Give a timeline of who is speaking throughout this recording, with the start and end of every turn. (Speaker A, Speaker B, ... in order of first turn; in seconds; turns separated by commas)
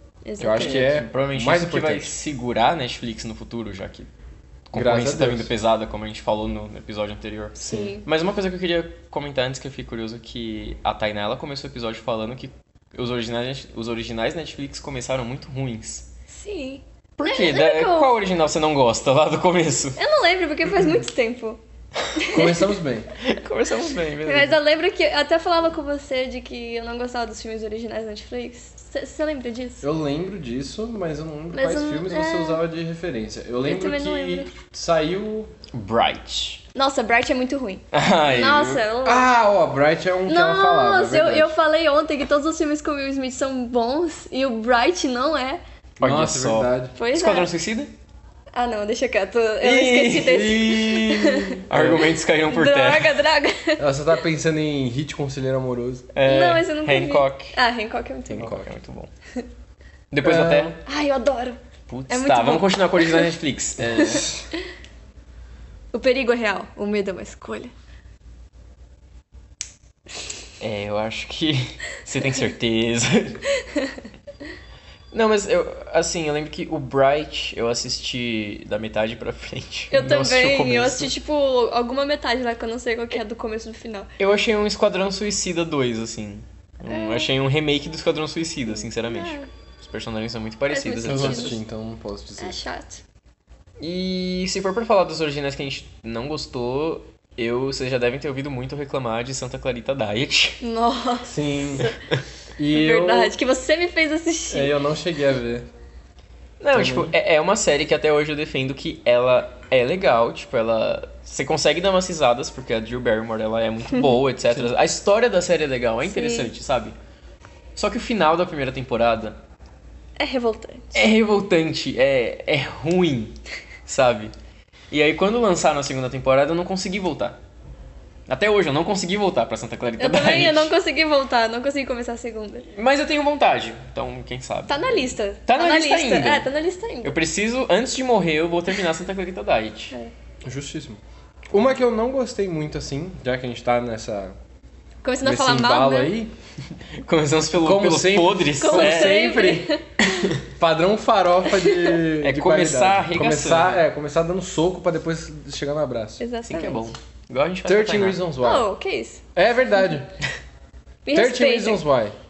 Speaker A: 0.2-0.8, Speaker B: 0.4-2.1, Speaker C: 0.4-4.1, Speaker C: 4.7-16.1, Speaker B: 4.7-5.5, Speaker A: 7.5-8.1, Speaker B: 7.6-7.9, Speaker A: 16.3-18.2, Speaker C: 17.2-20.0, Speaker A: 20.0-21.6, Speaker A: 22.1-22.6, Speaker B: 22.3-23.1, Speaker C: 23.2-24.6, Speaker A: 24.2-29.8, Speaker B: 29.8-35.5, Speaker A: 31.5-32.6, Speaker A: 33.6-34.5, Speaker C: 35.7-36.6, Speaker A: 36.7-39.3, Speaker C: 37.9-38.8, Speaker B: 39.0-41.5, Speaker A: 40.2-45.6, Speaker B: 46.0-46.9, Speaker C: 46.0-47.9, Speaker A: 47.0-47.5, Speaker A: 48.5-51.6, Speaker C: 49.6-51.0, Speaker B: 50.2-52.1, Speaker C: 51.7-53.3, Speaker A: 52.5-53.8, Speaker B: 53.8-56.1, Speaker C: 56.1-57.5, Speaker A: 56.2-58.6, Speaker C: 58.3-59.1, Speaker B: 58.3-58.7, Speaker C: 60.1-60.8, Speaker B: 60.2-60.7, Speaker A: 60.8-63.3, Speaker C: 61.9-64.3, Speaker B: 64.0-64.5, Speaker A: 65.9-67.7, Speaker C: 70.6-73.4, Speaker A: 73.6-74.0, Speaker C: 75.1-81.1, Speaker A: 79.9-84.1, Speaker C: 84.2-91.6, Speaker A: 86.8-87.3, Speaker A: 88.7-89.5, Speaker A: 90.7-91.6, Speaker B: 91.0-92.6, Speaker A: 92.4-93.0, Speaker C: 93.8-100.6, Speaker A: 100.6-102.0, Speaker B: 101.2-101.9, Speaker B: 102.6-103.3, Speaker A: 102.7-104.8, Speaker B: 104.5-105.7, Speaker C: 106.6-117.0, Speaker B: 106.7-107.1, Speaker A: 116.0-116.5, Speaker C: 117.8-119.4, Speaker A: 120.2-121.0, Speaker C: 120.9-124.3, Speaker C: 124.9-127.4, Speaker C: 128.3-130.7, Speaker A: 130.0-132.7, Speaker C: 132.7-136.5, Speaker A: 134.7-137.2, Speaker C: 137.0-139.9, Speaker B: 140.4-144.3, Speaker A: 145.0-146.1, Speaker B: 145.2-146.3, Speaker C: 147.0-150.4, Speaker B: 147.5-149.5, Speaker A: 148.6-150.3, Speaker B: 150.4-156.2, Speaker A: 151.5-152.0, Speaker C: 152.2-153.8, Speaker A: 156.2-156.9, Speaker C: 156.4-158.2, Speaker B: 157.6-158.7, Speaker A: 158.4-159.2, Speaker B: 159.3-160.1, Speaker A: 161.0-161.8, Speaker B: 161.1-162.2